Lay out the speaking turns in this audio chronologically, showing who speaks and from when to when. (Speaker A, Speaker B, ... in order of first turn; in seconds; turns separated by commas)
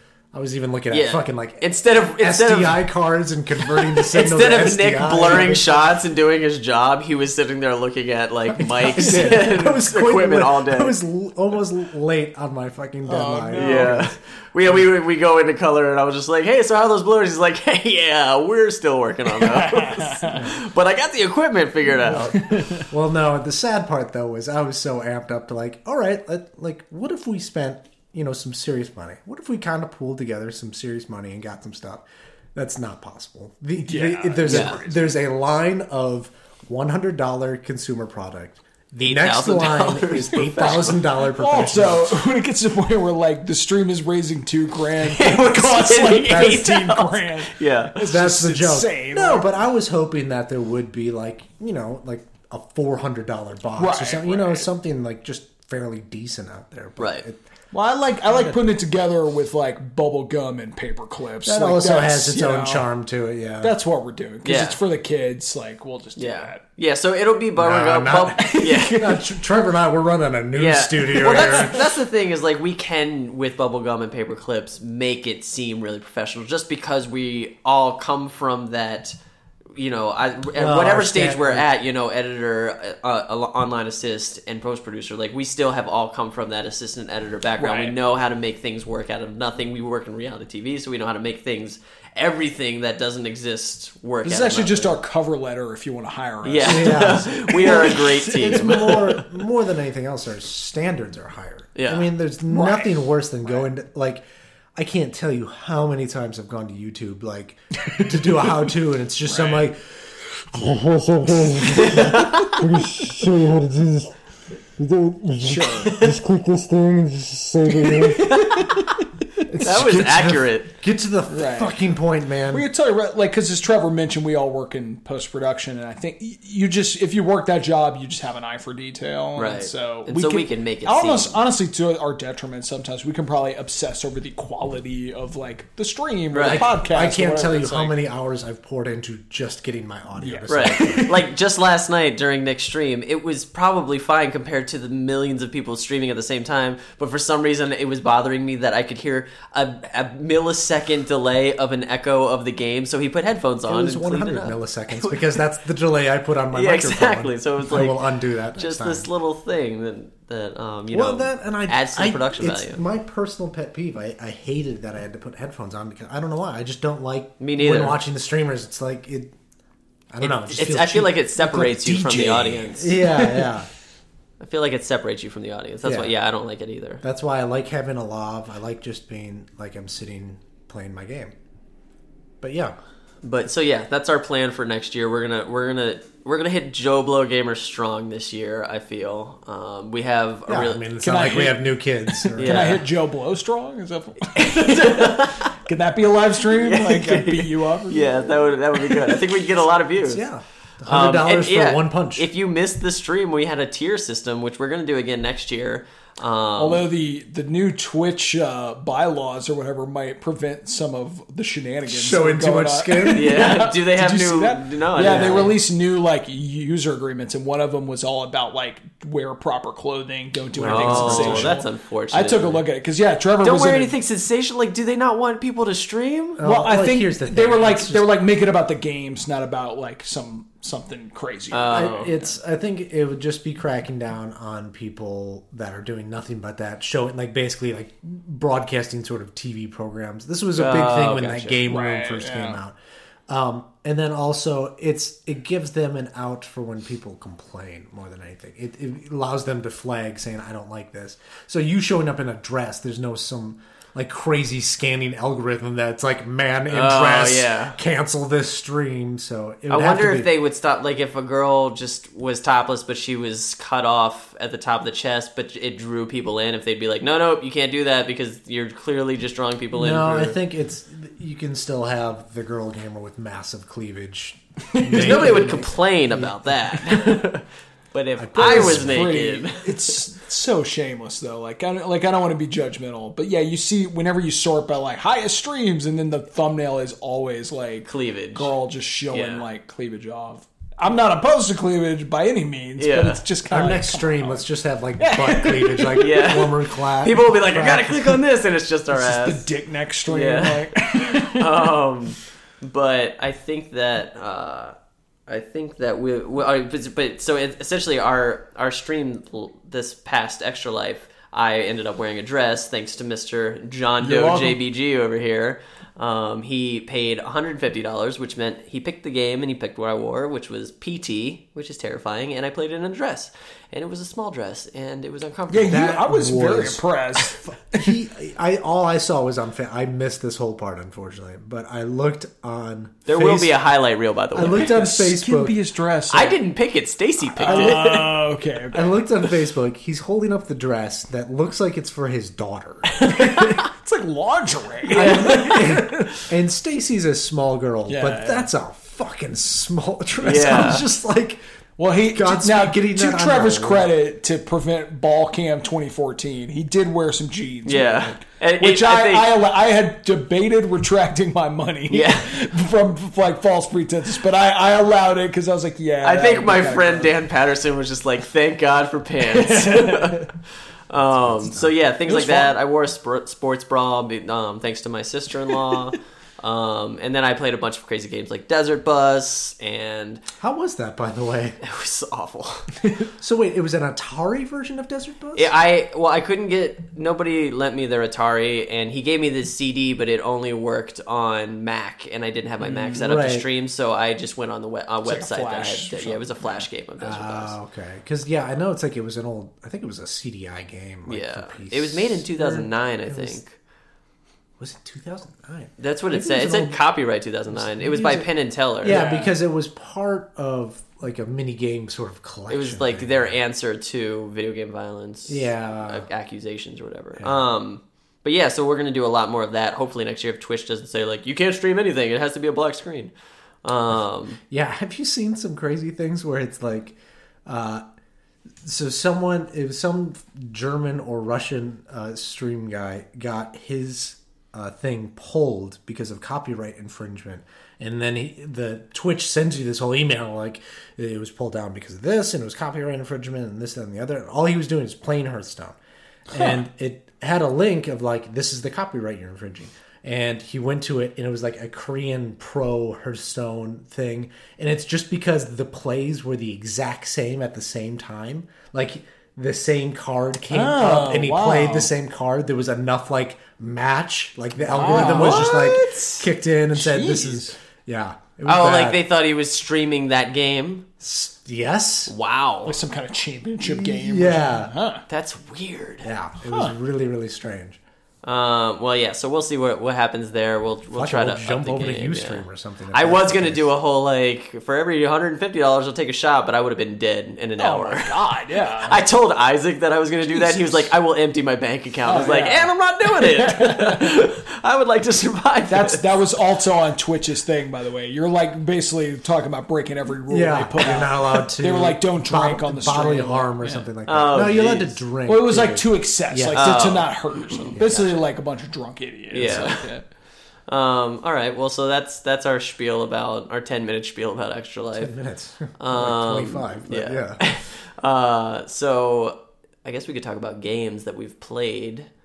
Speaker A: 0.3-5.9, Speaker B: 0.9-2.8, Speaker B: 3.7-10.9, Speaker A: 8.6-14.1, Speaker C: 9.0-9.5, Speaker C: 13.0-14.0, Speaker B: 13.6-22.6, Speaker C: 19.4-20.4, Speaker A: 20.3-20.6, Speaker C: 22.0-22.9, Speaker A: 22.1-42.2, Speaker C: 33.8-35.1, Speaker B: 34.5-34.8, Speaker B: 39.0-41.0, Speaker C: 40.6-49.5, Speaker B: 45.0-48.0, Speaker A: 46.3-46.6, Speaker A: 48.0-57.4, Speaker C: 53.8-54.7, Speaker B: 57.0-57.2, Speaker C: 57.7-62.9, Speaker A: 58.3-58.6, Speaker A: 61.4-63.7, Speaker C: 63.6-66.6, Speaker B: 64.4-64.8, Speaker B: 66.2-69.1, Speaker A: 67.6-71.9, Speaker C: 68.4-69.2, Speaker B: 70.5-79.1, Speaker C: 71.2-71.8, Speaker B: 79.8-95.0, Speaker A: 80.5-81.7, Speaker C: 87.6-88.0, Speaker C: 94.2-99.1, Speaker B: 96.4-99.2, Speaker A: 96.6-104.2, Speaker B: 101.8-102.1, Speaker C: 102.5-103.6, Speaker A: 104.8-114.1, Speaker C: 107.9-108.7, Speaker C: 109.2-109.7, Speaker C: 111.5-112.1, Speaker B: 111.7-112.6, Speaker A: 114.8-118.3, Speaker C: 115.4-116.1, Speaker B: 115.8-116.2, Speaker C: 117.7-118.9, Speaker B: 118.2-119.0, Speaker A: 119.5-122.7, Speaker B: 119.6-120.7, Speaker C: 121.3-121.8, Speaker C: 122.5-137.9, Speaker B: 129.3-131.4, Speaker B: 136.3-136.7, Speaker A: 136.4-141.2, Speaker C: 140.2-141.1, Speaker B: 140.5-155.4, Speaker A: 153.7-159.1, Speaker B: 156.5-158.0, Speaker B: 158.6-162.8, Speaker A: 160.9-169.3, Speaker B: 167.4-168.0, Speaker A: 170.1-173.7, Speaker B: 170.2-173.0, Speaker C: 171.5-173.5, Speaker B: 174.4-177.0, Speaker A: 175.8-176.1, Speaker A: 177.0-181.3, Speaker A: 182.4-182.7, Speaker B: 183.2-190.8, Speaker A: 190.5-192.8, Speaker C: 191.0-199.4, Speaker B: 192.4-192.8, Speaker B: 194.3-195.5, Speaker B: 196.5-200.2, Speaker A: 200.0-202.3, Speaker B: 200.9-206.9, Speaker C: 206.6-223.9, Speaker A: 211.9-213.6, Speaker B: 213.1-215.6, Speaker A: 215.1-215.5, Speaker A: 220.5-221.6, Speaker B: 220.6-222.6, Speaker B: 223.4-226.4, Speaker A: 226.4-228.1, Speaker C: 226.4-232.2, Speaker B: 231.5-232.1, Speaker A: 231.7-242.8, Speaker B: 240.6-241.6, Speaker C: 241.7-242.6, Speaker A: 243.3-260.3, Speaker B: 256.7-257.8, Speaker B: 259.7-270.4, Speaker A: 269.7-277.0, Speaker C: 274.7-275.6, Speaker B: 274.9-280.0, Speaker A: 278.2-279.1, Speaker C: 278.3-294.4, Speaker B: 287.9-288.5, Speaker B: 289.1-289.4, Speaker B: 292.8-293.2, Speaker A: 293.5-298.2, Speaker C: 295.0-296.6, Speaker B: 296.0-299.4, Speaker C: 298.9-301.7, Speaker B: 300.1-304.8, Speaker B: 305.3-325.9, Speaker C: 314.0-314.6, Speaker C: 325.5-328.0, Speaker A: 325.7-333.5, Speaker B: 333.1-334.8, Speaker A: 334.3-335.6, Speaker C: 334.5-336.4, Speaker B: 336.1-338.1, Speaker C: 337.4-339.3, Speaker A: 337.4-337.8, Speaker A: 338.7-343.4, Speaker B: 343.0-343.5, Speaker C: 343.2-345.9, Speaker B: 344.9-345.8, Speaker A: 344.9-351.4, Speaker C: 347.9-348.5, Speaker B: 350.2-350.9, Speaker C: 350.2-350.8, Speaker C: 351.8-367.1, Speaker A: 352.1-353.9, Speaker B: 357.6-359.3, Speaker B: 361.9-362.3, Speaker B: 366.0-370.3, Speaker C: 369.3-370.3, Speaker B: 370.9-380.2, Speaker A: 371.1-371.7, Speaker C: 372.1-372.5, Speaker A: 380.4-381.6, Speaker B: 381.6-382.7, Speaker A: 383.1-385.5, Speaker B: 385.3-397.5, Speaker C: 392.7-392.9, Speaker A: 392.9-393.4, Speaker C: 395.0-396.7, Speaker A: 397.0-403.4, Speaker B: 401.1-403.5, Speaker A: 404.6-406.8, Speaker B: 405.8-409.0, Speaker A: 407.5-408.3, Speaker A: 408.8-413.4, Speaker C: 408.8-409.3, Speaker B: 412.5-423.1, Speaker A: 415.3-416.1, Speaker A: 417.2-417.4, Speaker B: 423.6-424.4, Speaker A: 424.5-427.8, Speaker A: 428.6-445.8, Speaker A: 446.3-469.0, Speaker C: 460.5-461.9, Speaker C: 464.6-467.5, Speaker B: 464.8-465.6, Speaker B: 468.4-470.8, Speaker A: 471.0-472.1, Speaker B: 472.1-472.7, Speaker C: 472.6-475.0, Speaker A: 473.6-474.7, Speaker B: 475.1-476.1, Speaker A: 476.0-477.8, Speaker C: 476.5-476.7, Speaker B: 478.2-488.2, Speaker A: 480.9-483.7, Speaker C: 487.6-489.0, Speaker B: 488.8-496.0, Speaker C: 490.2-490.9, Speaker C: 492.0-494.1, Speaker C: 495.7-503.9, Speaker A: 500.3-506.9, Speaker B: 504.1-505.0, Speaker C: 505.2-510.0, Speaker B: 506.5-508.1, Speaker A: 507.8-508.2, Speaker B: 509.3-509.9, Speaker B: 510.7-515.1, Speaker A: 515.0-517.4, Speaker B: 515.8-522.1